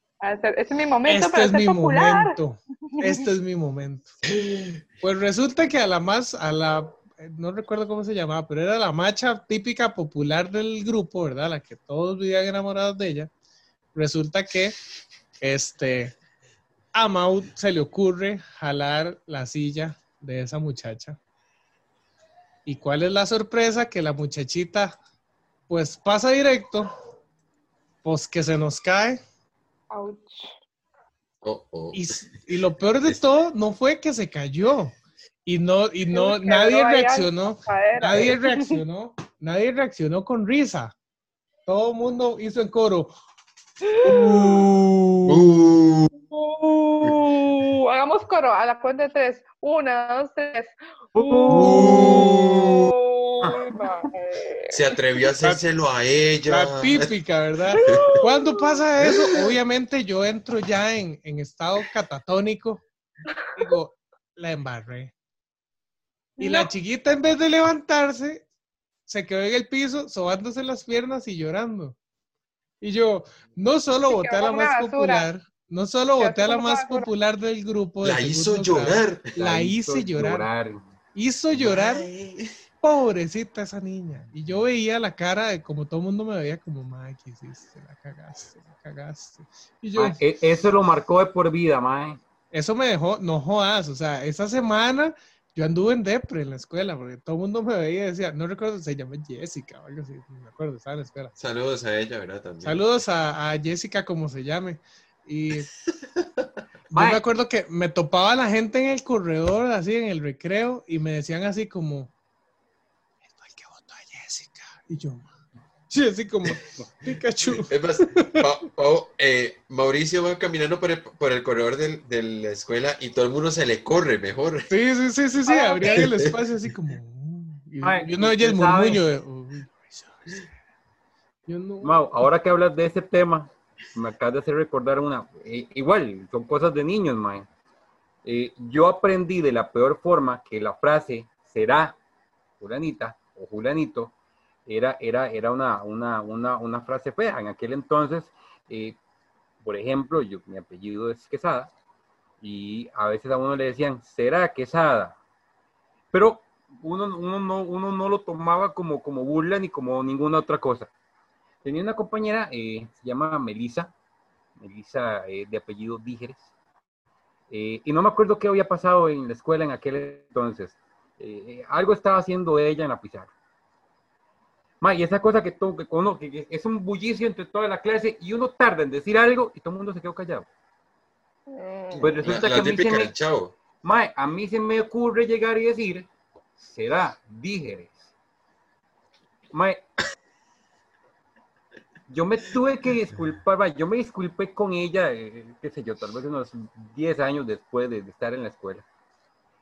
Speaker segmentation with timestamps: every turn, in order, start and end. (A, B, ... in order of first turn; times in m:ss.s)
0:00.2-0:02.4 A
0:01.1-0:04.1 B
0:04.2-0:04.8 C
0:05.0-0:13.3 B
0:14.0-0:14.8 B
0:15.4-0:16.1 B
0:16.9-0:21.2 B
0:22.7-0:25.0 B
0:25.7-0:26.9 B
0:28.0-0:29.2 B
0:29.9-0:30.5 A
0:31.4-0:32.1 C
0:31.9-0:40.9 B
0:36.1-0:38.8 A
0:38.1-0:38.4 C
0:41.7-0:43.1 B
0:43.8-0:44.4 A
0:44.0-0:44.6 C
0:44.2-0:45.6 B
0:45.3-0:46.1 C
0:46.3-0:54.8 A
0:51.2-0:52.4 D
0:51.5-0:52.9 C
0:53.4-0:53.8 D
0:54.7-0:57.1 C
0:56.5-1:02.8 B
0:57.8-0:58.8 A
0:57.9-0:58.1 C
1:03.6-1:05.1 B
1:06.4-1:06.7 A
1:06.4-1:08.4 B
1:09.1-1:12.0 B
1:12.8-1:20.5 B
1:14.1-1:15.3 A
1:16.2-1:17.1 A
1:18.0-1:19.3 C
1:19.4-1:20.8 D
1:21.2-1:22.1 B
1:21.5-1:22.5 C
1:22.8-1:30.2 B
1:30.0-1:32.2 D
1:32.5-1:41.3 B
1:41.4-1:42.8 C
1:42.6-1:45.7 B
1:46.0-1:46.5 C
1:46.9-1:52.1 B
1:46.9-1:47.2 D
1:53.3-1:55.3 B
1:55.9-1:58.4 B
1:57.5-2:04.7 C
2:04.7-2:10.5 B
2:05.5-2:06.0 A
2:05.8-2:06.4 C
2:07.8-2:09.0 D
2:11.5-2:11.9 B
2:11.8-2:17.5 D
2:18.2-2:22.0 D
2:22.6-2:24.1 D
2:24.7-2:29.0 D
2:29.6-2:31.7 D
2:32.4-2:35.2 D
2:36.1-2:40.9 D
2:41.6-2:43.9 D
2:44.6-2:46.4 D
2:47.5-2:53.3 D
2:54.8-3:00.5 D
3:01.5-3:02.2 A
3:02.0-3:03.6 C
3:02.0-3:03.1 D
3:03.8-3:06.1 D
3:06.6-3:08.0 D
3:09.5-3:09.8 D
3:12.1-3:18.8 D